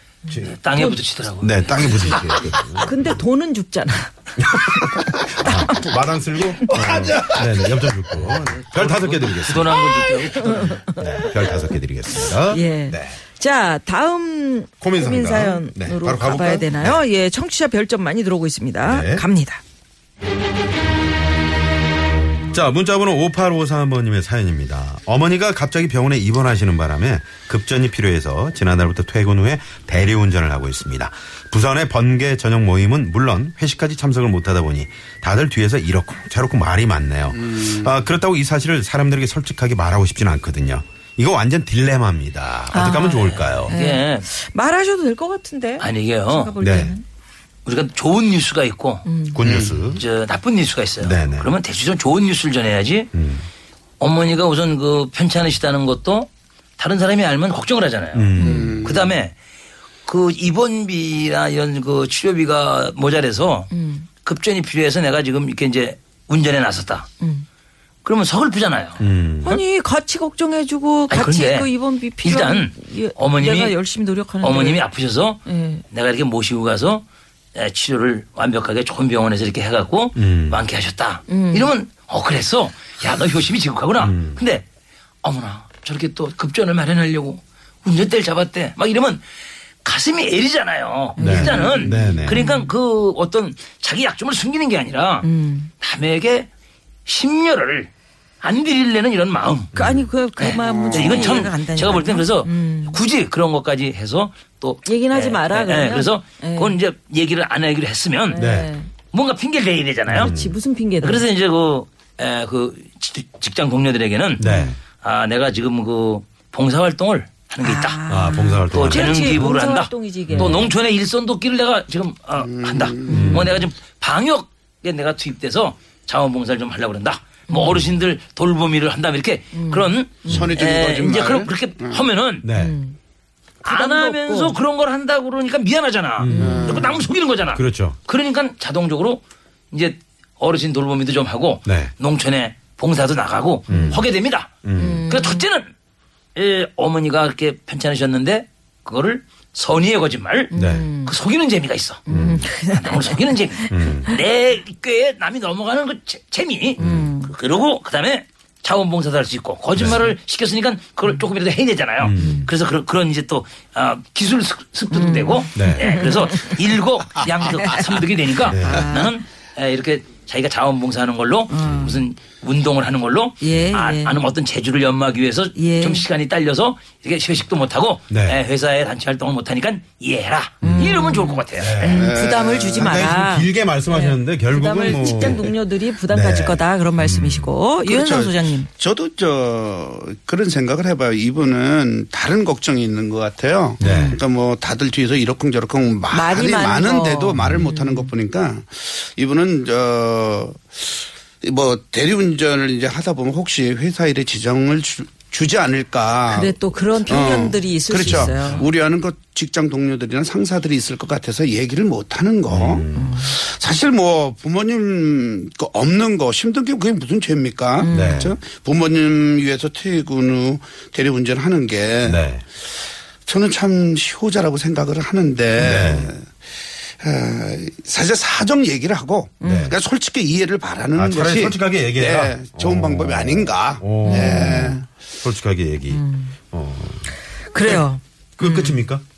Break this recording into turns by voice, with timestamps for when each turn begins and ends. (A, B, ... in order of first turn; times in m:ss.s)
0:00.3-0:00.6 A
0:00.5-0:01.6 B
0:01.4-0:03.2 A
0:02.8-0:06.0 C
0:04.4-0:09.9 A
0:06.7-0:08.2 D
0:08.3-0:10.8 B
0:10.4-0:11.6 C
0:11.0-0:13.2 A
0:12.4-0:19.6 C
0:14.8-0:17.0 A
0:18.8-0:19.2 A
0:22.5-0:43.7 A
0:37.3-0:37.9 D
0:42.7-0:47.0 C
0:43.5-0:44.3 B
0:45.8-0:46.5 B
0:46.6-0:46.9 A
0:47.6-0:49.0 B
0:49.0-0:49.4 C
0:49.3-0:50.0 A
0:49.4-0:49.8 D
0:49.9-0:53.1 B
0:51.0-0:51.5 A
0:53.1-0:53.5 A
0:54.0-0:59.3 B
0:58.1-0:58.9 A
0:58.4-0:58.8 C
0:58.4-0:59.1 D
1:00.0-1:03.7 B
1:03.7-1:04.1 C
1:04.2-1:07.1 B
1:07.2-1:07.4 C
1:08.0-1:09.5 B
1:09.0-1:09.6 A
1:09.4-1:14.8 C
1:11.1-1:13.8 B
1:14.4-1:17.0 B
1:15.4-1:15.8 C
1:17.5-1:24.6 B
1:20.2-1:20.6 A
1:21.3-1:21.7 C
1:24.0-1:24.4 A
1:25.2-1:29.2 B
1:29.8-1:35.3 B
1:31.2-1:32.7 C
1:31.2-1:32.4 A
1:35.2-1:35.7 C
1:35.8-1:36.5 B
1:37.0-1:37.9 B
1:38.4-1:39.7 B
1:39.7-1:40.1 A
1:39.7-1:43.0 C
1:40.4-1:48.4 B
1:40.5-1:41.4 D
1:44.8-1:46.8 C
1:48.3-1:48.9 C
1:48.3-1:48.7 A
1:49.1-1:50.3 B
1:50.1-1:50.6 A
1:50.1-1:51.2 C
1:51.0-1:54.4 B
1:54.4-1:54.8 A
1:54.4-1:54.7 C
1:55.0-1:58.0 B
1:57.6-2:00.7 C
1:58.1-1:59.5 A
1:58.7-2:12.4 B
2:00.3-2:00.7 A
2:02.4-2:03.2 D
2:03.1-2:03.5 C
2:03.1-2:03.7 A
2:07.5-2:07.8 C
2:09.5-2:10.5 C
2:10.3-2:12.0 D
2:12.4-2:12.8 A
2:12.5-2:13.0 C
2:13.6-2:14.6 C
2:13.6-2:25.7 B
2:16.2-2:16.8 A
2:16.3-2:17.0 D
2:16.3-2:16.6 C
2:17.5-2:18.0 A
2:21.6-2:21.9 A
2:23.7-2:24.1 A
2:23.7-2:24.0 C
2:24.6-2:25.1 A
2:24.8-2:25.4 C
2:26.3-3:02.0 B
2:30.5-2:31.1 C
2:30.5-2:30.9 A
2:32.1-2:34.2 C
2:32.1-2:32.5 A
2:33.7-2:34.1 A
2:36.8-2:37.3 C
2:36.8-2:37.1 A
2:39.7-2:40.1 A
2:42.0-2:42.5 A
2:42.2-2:42.5 C
2:44.9-2:46.6 C
2:45.5-2:46.0 A
2:47.5-2:49.2 C
2:48.4-2:49.0 A
2:51.5-2:52.0 C
2:51.6-2:51.9 A
2:53.4-2:54.2 C
2:55.5-2:56.0 C
2:58.1-2:58.4 A
3:00.6-3:02.1 A
3:00.6-3:08.7 C
3:01.9-3:03.0 D
3:02.8-3:07.5 A
3:05.1-3:05.4 D
3:07.8-3:42.2 D
3:13.8-3:14.2 C
3:13.8-3:14.2 A
3:16.1-3:18.1 C
3:26.3-3:28.7 C
3:28.0-3:28.6 A
3:32.5-3:33.2 A
3:32.9-3:33.3 C
3:37.8-3:38.3 C
3:37.9-3:38.3 A
3:42.0-3:42.4 A
3:43.2-3:46.4 D
3:45.6-3:46.1 A
3:47.0-3:54.8 D
3:49.4-3:49.7 C
3:49.4-3:49.7 A
3:50.9-3:57.9 A
3:54.0-3:54.7 C
3:55.9-3:56.3 C
3:57.4-3:58.9 C
3:58.4-3:59.0 A